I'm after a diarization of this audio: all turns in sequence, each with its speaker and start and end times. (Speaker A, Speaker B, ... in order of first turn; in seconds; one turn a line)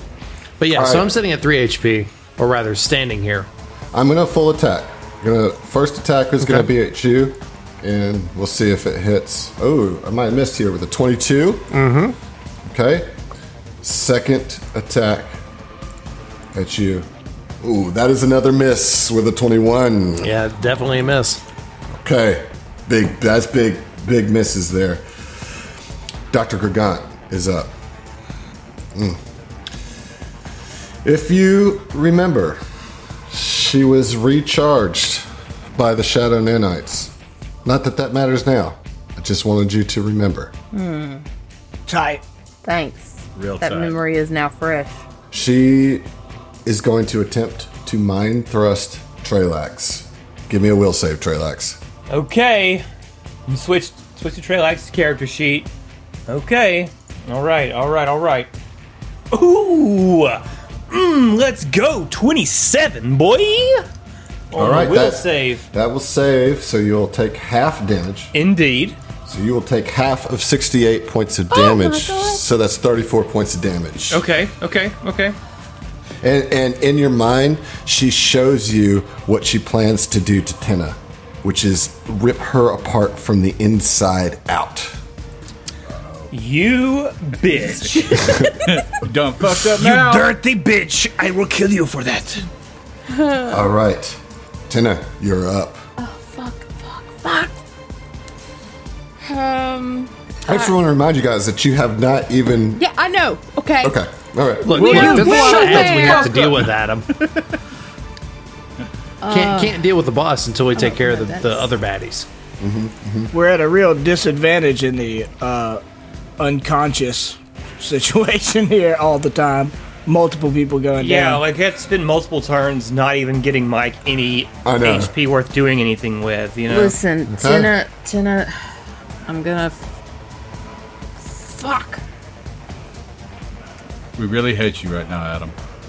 Speaker A: 0.6-3.5
Speaker B: 0.7-1.1
Speaker B: 3.9-11.7
Speaker A: 6.4-6.7
Speaker A: 11.7-12.2
Speaker B: 12.6-13.1
Speaker B: 13.8-15.4
Speaker B: 16.5-17.1
Speaker B: 17.6-20.3
Speaker A: 20.2-21.4
Speaker B: 21.9-25.0
Speaker B: 26.3-27.7
Speaker B: 28.9-29.2
Speaker B: 31.0-32.6
Speaker B: 33.3-37.1
Speaker B: 37.6-40.5
Speaker C: 40.7-41.2
Speaker D: 41.9-42.2
Speaker C: 42.6-45.0
Speaker E: 43.4-44.0
Speaker B: 45.3-46.1
Speaker B: 46.6-51.8
Speaker F: 52.1-52.9
Speaker F: 53.5-55.7
Speaker F: 56.3-58.5
Speaker F: 59.3-63.9
Speaker F: 64.5-65.6
Speaker B: 64.5-68.3
Speaker F: 68.3-69.0
Speaker B: 69.2-74.2
Speaker C: 71.5-72.4
Speaker F: 74.1-75.4
Speaker B: 76.2-85.0
Speaker F: 86.3-88.8
Speaker B: 88.2-88.5
Speaker E: 88.4-90.3
Speaker F: 89.5-92.5
Speaker C: 93.1-93.6
Speaker B: 93.5-95.8
Speaker C: 96.0-97.6
Speaker C: 99.2-100.7
Speaker B: 100.5-102.8
Speaker C: 102.8-104.0
Speaker B: 103.8-104.8
Speaker A: 104.6-107.1
Speaker C: 104.7-106.4
Speaker E: 104.7-107.4
Speaker C: 109.2-109.8
Speaker A: 109.3-112.3
Speaker C: 110.8-111.7
Speaker B: 112.6-113.3
Speaker D: 113.3-115.8
Speaker D: 116.4-121.4
Speaker F: 121.0-126.9
Speaker B: 124.6-125.1
Speaker C: 126.7-128.5
Speaker B: 127.3-127.7
Speaker C: 129.2-129.8
Speaker C: 131.2-132.0
Speaker E: 134.2-135.5